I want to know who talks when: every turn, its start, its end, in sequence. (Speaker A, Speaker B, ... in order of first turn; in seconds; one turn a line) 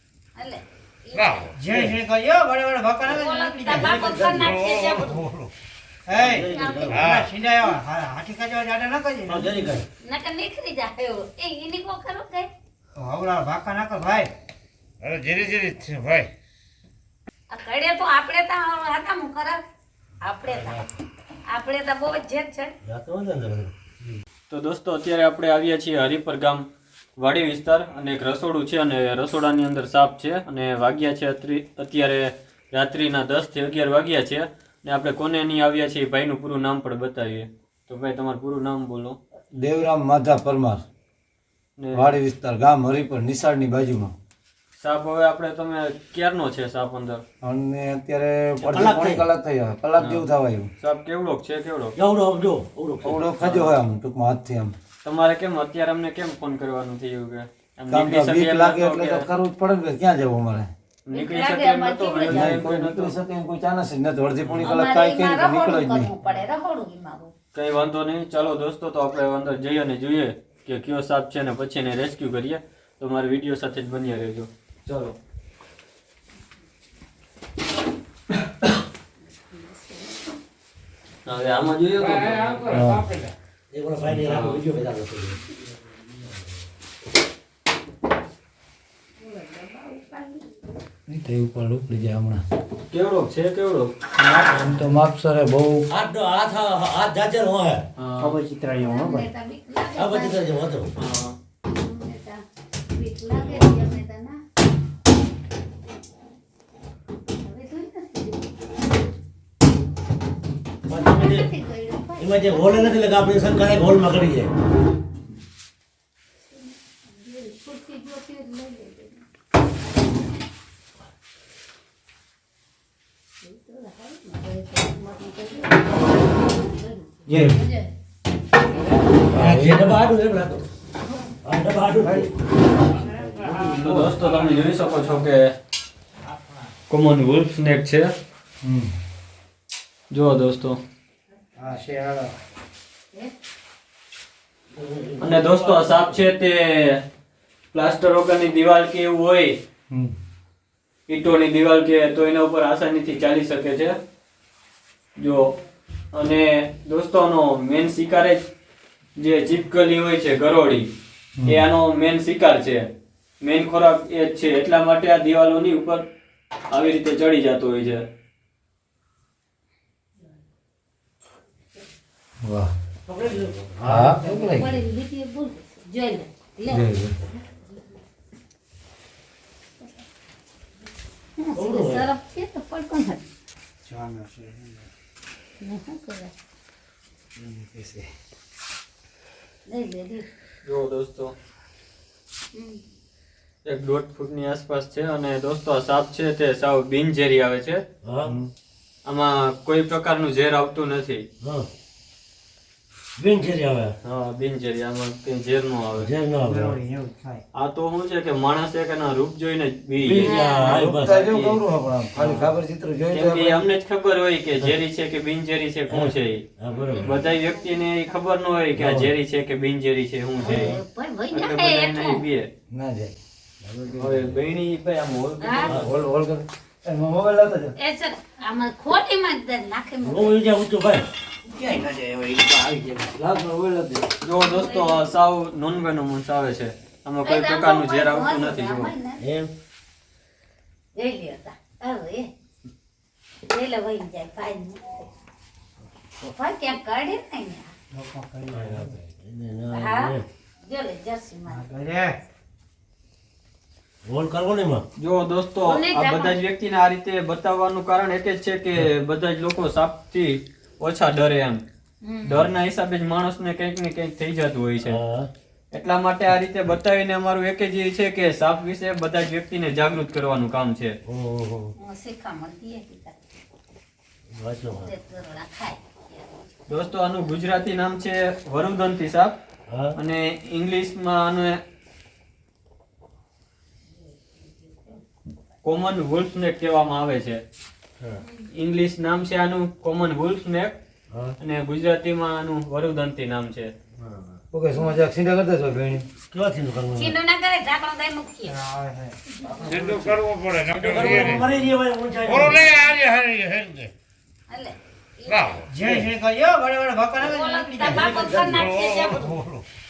Speaker A: 0.3-1.5
Speaker B: 1.1-1.5
Speaker C: 1.6-4.2
Speaker A: 3.0-5.2
Speaker D: 3.8-4.7
Speaker B: 4.3-5.5
Speaker C: 6.1-6.5
Speaker D: 6.1-7.2
Speaker A: 6.5-7.0
Speaker B: 6.9-7.3
Speaker C: 7.0-9.5
Speaker D: 9.3-9.8
Speaker A: 10.0-12.5
Speaker C: 12.9-14.3
Speaker B: 15.0-16.3
Speaker A: 17.5-19.6
Speaker A: 20.2-20.8
Speaker D: 20.4-20.9
Speaker A: 21.5-22.7
Speaker D: 22.8-23.7
Speaker E: 24.5-26.6
Speaker E: 27.2-39.2
Speaker F: 39.6-40.8
Speaker E: 41.8-42.1
Speaker F: 41.9-44.1
Speaker E: 44.8-47.2
Speaker F: 47.4-50.7
Speaker D: 48.6-49.2
Speaker E: 50.0-50.2
Speaker E: 50.8-51.9
Speaker D: 52.0-53.2
Speaker F: 53.0-54.7
Speaker E: 53.1-53.7
Speaker E: 55.0-59.2
Speaker F: 57.9-60.7
Speaker E: 61.0-63.1
Speaker A: 61.1-62.6
Speaker F: 62.3-66.1
Speaker E: 64.4-64.7
Speaker A: 64.6-67.3
Speaker E: 67.5-75.2
Speaker E: 81.2-82.8
Speaker B: 82.0-83.3
Speaker F: 82.7-83.1
Speaker D: 83.7-85.4
Speaker E: 84.1-84.6
Speaker A: 89.2-90.4
Speaker F: 91.1-92.4
Speaker E: 92.9-93.9
Speaker F: 94.2-95.9
Speaker D: 95.9-97.8
Speaker E: 98.0-98.4
Speaker F: 98.2-99.3
Speaker A: 98.7-100.5
Speaker D: 99.9-100.9
Speaker E: 101.0-101.3
Speaker A: 101.7-104.4
Speaker A: 107.4-108.5
Speaker D: 110.9-111.5
Speaker A: 111.0-113.1
Speaker D: 112.2-114.5
Speaker A: 116.9-119.2
Speaker A: 123.4-127.9
Speaker F: 127.3-127.6
Speaker D: 129.3-130.7
Speaker F: 129.3-129.9
Speaker D: 131.4-132.3
Speaker D: 133.0-133.7
Speaker F: 133.5-134.2
Speaker E: 133.7-135.5
Speaker E: 136.9-138.1
Speaker F: 138.6-138.9
Speaker E: 140.1-140.8
Speaker D: 144.7-146.2
Speaker E: 145.2-147.0
Speaker E: 147.7-149.6
Speaker E: 151.1-153.9
Speaker E: 155.2-155.5
Speaker E: 156.1-158.4
Speaker E: 159.2-160.9
Speaker F: 161.4-161.7
Speaker E: 161.4-162.9
Speaker E: 163.4-166.1
Speaker E: 166.7-168.0
Speaker F: 172.4-172.7
Speaker D: 173.1-174.2
Speaker F: 173.8-174.8
Speaker A: 174.2-176.9
Speaker F: 176.7-177.1
Speaker A: 181.4-183.3
Speaker D: 181.6-182.1
Speaker C: 183.9-184.7
Speaker A: 185.6-186.3
Speaker C: 187.5-187.9
Speaker A: 189.7-190.3
Speaker E: 190.6-191.3
Speaker A: 192.5-192.8
Speaker E: 193.6-197.8
Speaker D: 198.0-198.3
Speaker E: 199.1-201.2
Speaker D: 201.4-201.7
Speaker D: 203.2-203.9
Speaker E: 204.0-206.1
Speaker D: 205.9-206.8
Speaker C: 206.4-207.4
Speaker E: 207.5-210.4
Speaker D: 210.0-211.4
Speaker A: 210.2-210.8
Speaker F: 210.6-213.6
Speaker E: 212.2-212.6
Speaker E: 213.1-216.4
Speaker D: 215.9-217.2
Speaker A: 216.9-217.9
Speaker E: 217.0-220.8
Speaker D: 218.7-219.1
Speaker A: 220.4-222.2
Speaker D: 220.4-220.8
Speaker E: 221.3-222.5
Speaker F: 222.7-223.1
Speaker D: 223.6-224.4
Speaker E: 224.0-225.9
Speaker A: 225.4-225.7
Speaker F: 225.7-227.7
Speaker A: 227.8-230.3
Speaker D: 230.0-231.1
Speaker F: 231.4-234.1
Speaker E: 234.2-238.9
Speaker A: 234.4-235.0
Speaker A: 237.2-239.2
Speaker D: 239.2-239.5
Speaker A: 240.9-242.3
Speaker A: 243.5-245.1
Speaker A: 246.2-247.7
Speaker C: 247.9-248.9
Speaker D: 248.5-250.2
Speaker A: 249.7-251.6
Speaker C: 251.5-252.2
Speaker D: 254.0-254.8
Speaker E: 255.0-261.6
Speaker A: 255.6-256.4
Speaker A: 262.0-262.5
Speaker E: 262.2-265.0
Speaker D: 264.8-265.3
Speaker E: 265.7-270.9
Speaker D: 271.1-271.7
Speaker A: 271.8-273.2
Speaker D: 274.3-274.9
Speaker A: 274.8-276.5
Speaker E: 276.7-279.4
Speaker D: 279.7-279.9
Speaker E: 279.9-281.6
Speaker E: 285.6-287.4
Speaker E: 288.5-290.8
Speaker E: 291.4-293.7
Speaker D: 294.0-294.4
Speaker F: 294.5-296.1
Speaker D: 296.3-297.1
Speaker A: 296.9-298.6
Speaker C: 298.5-299.1
Speaker D: 299.5-300.2
Speaker B: 299.6-301.5
Speaker D: 300.7-302.9
Speaker B: 302.2-303.9
Speaker A: 304.5-305.7
Speaker B: 305.3-305.7
Speaker C: 305.7-308.1
Speaker A: 307.2-309.3
Speaker D: 307.8-309.4
Speaker B: 308.4-309.6